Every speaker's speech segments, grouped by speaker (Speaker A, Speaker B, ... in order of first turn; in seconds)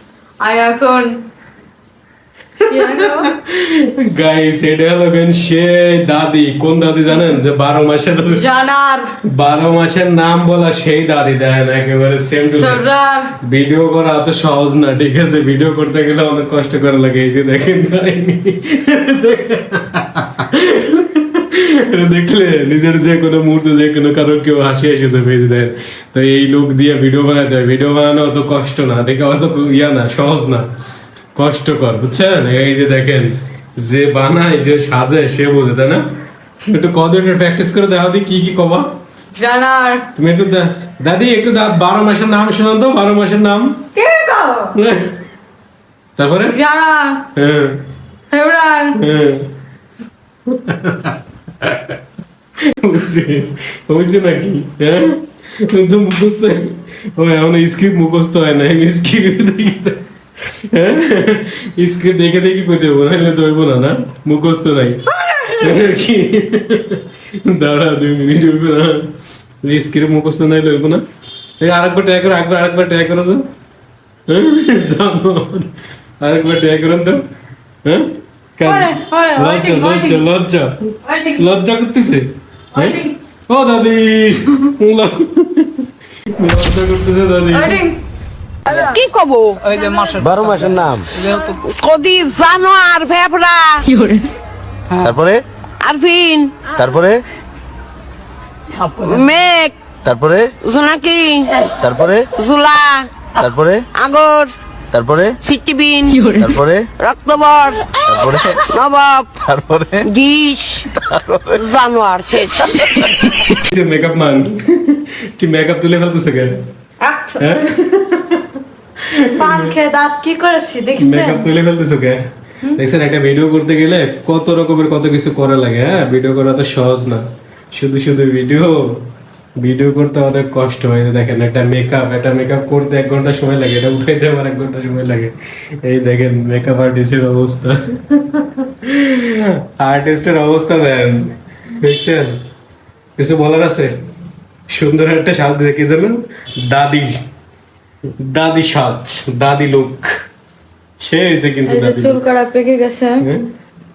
Speaker A: 0.4-1.2, 2.7-3.3, 8.3-9.2, 12.6-13.3, 39.4-40.0, 44.0-44.7, 46.5-47.2, 48.3-49.0, 78.6-80.2, 81.0-81.4, 82.8-83.1, 87.5-88.0, 88.7-89.0, 93.9-94.3, 106.1-106.5, 117.0-117.4, 119.3-121.5, 151.7-153.2
Speaker B: 2.7-8.4, 9.2-12.8, 13.4-30.7, 31.3-36.0, 36.7-38.9, 40.2-43.8, 44.7-45.1, 46.2-46.6, 47.3-47.8, 49.0-49.5, 50.5-52.0, 52.7-60.0, 60.7-69.1, 69.6-71.0, 71.6-73.4, 74.3-75.7, 76.2-77.2, 77.8-87.9, 113.3-116.6, 117.4-118.5, 119.0-119.8, 121.0-122.2, 122.8-129.1, 129.6-142.4, 143.2-144.0, 144.7-147.2, 148.2-150.1, 151.0-152.2, 153.2-153.5
Speaker C: 88.7-89.6, 91.6-93.9, 95.8-96.7, 98.8-99.8, 100.6-101.8, 102.4-103.1, 103.9-104.5, 105.4-106.3, 106.9-109.4, 110.0-110.9, 111.5-113.1
Speaker D: 89.6-91.6
Speaker E: 90.2-91.1, 95.0-95.4, 96.8-97.2, 100.0-100.5, 101.8-102.3, 103.4-103.9, 104.9-105.4, 106.4-106.9, 108.1-108.6, 109.4-110.1, 110.9-111.6